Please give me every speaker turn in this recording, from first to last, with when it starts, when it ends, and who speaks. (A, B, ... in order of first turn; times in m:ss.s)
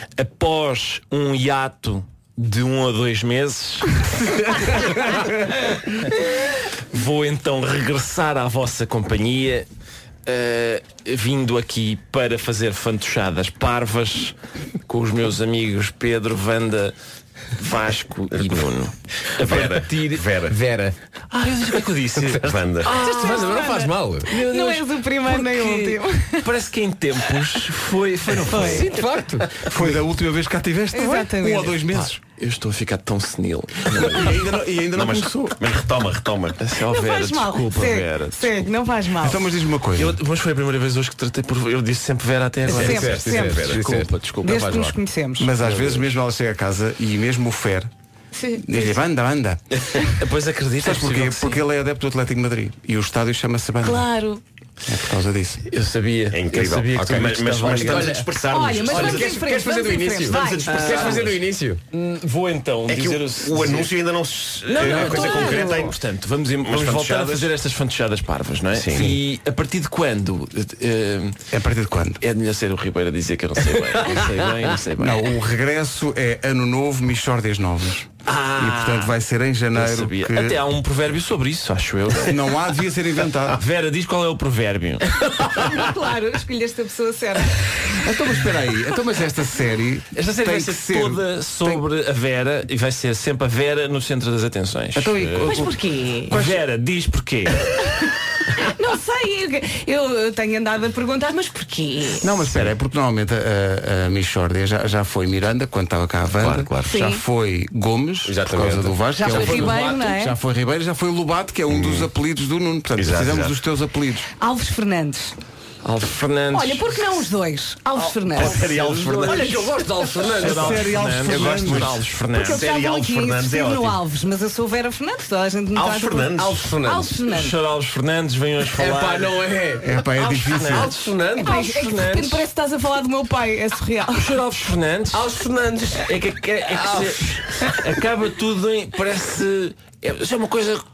0:00.2-0:03.9 A
0:04.2-0:04.9 B
0:04.6-0:05.4 A
0:06.9-0:09.7 A
0:10.3-0:17.0 A
0:17.6-0:20.0 A
0:18.3-0:18.7 C
0:19.4-0:20.6 C
0:19.4-0:21.0 D
0:21.3-0:23.5 A
0:21.6-0:24.4 D
0:22.4-0:22.9 C
0:22.9-0:26.5 E
0:24.4-0:29.0 A
0:28.4-0:28.9 E
0:28.5-0:29.5 D
0:29.6-0:29.9 A
0:29.7-0:32.2 B
0:30.9-0:31.8 E
0:32.0-0:34.4 A
0:34.0-0:35.6 B
0:34.9-0:36.6 C
0:36.6-0:38.7 A
0:36.8-0:39.5 E
0:39.2-0:40.2 B
0:40.0-0:44.9 A
0:42.7-0:43.7 E
0:42.7-0:44.9 D
0:44.4-0:45.5 E
0:45.4-0:47.9 B
0:45.6-0:46.0 A
0:48.3-0:49.0 E
0:48.6-0:50.0 B
0:50.0-0:51.6 A
0:50.8-0:54.1 B
0:53.9-0:54.4 E
0:54.9-0:55.6 B
0:55.7-0:58.2 A
0:56.3-0:59.4 C
0:57.0-0:58.3 D
0:58.4-1:00.8 E
0:58.8-1:01.8 D
1:00.3-1:01.4 C
1:00.7-1:01.4 A
1:01.9-1:03.9 A
1:02.9-1:06.0 C
1:04.7-1:11.4 A
1:04.8-1:05.9 D
1:06.6-1:07.5 C
1:08.7-1:09.2 C
1:11.5-1:12.2 B
1:12.2-1:15.3 A
1:15.0-1:20.6 B
1:18.3-1:19.2 A
1:19.7-1:22.6 A
1:22.2-1:23.6 B
1:23.5-1:25.2 A
1:25.2-1:27.7 E
1:28.0-1:31.8 B
1:30.1-1:35.6 A
1:35.0-1:35.7 B
1:35.4-1:36.3 E
1:36.3-1:36.6 B
1:36.4-1:37.7 A
1:38.6-1:42.3 E
1:42.2-1:54.3 B
1:46.4-1:46.9 C
1:46.9-1:47.2 E
1:48.2-1:50.0 D
1:49.2-1:50.4 E
1:51.7-1:52.1 C
1:53.0-1:53.6 C
1:54.4-1:55.4 E
1:55.8-1:57.0 A
1:56.5-1:59.7 E
1:58.3-2:01.9 D
1:58.3-1:59.4 C
1:58.7-1:59.4 A
2:00.3-2:02.6 A
2:00.4-2:02.0 B
2:01.4-2:04.0 C
2:02.3-2:07.6 E
2:05.8-2:06.6 C
2:06.3-2:07.2 D
2:07.3-2:09.4 A
2:08.8-2:11.7 D
2:09.8-2:10.9 B
2:10.2-2:12.4 A
2:11.4-2:14.4 E
2:14.2-2:15.2 A
2:15.1-2:17.8 D
2:16.0-2:20.8 A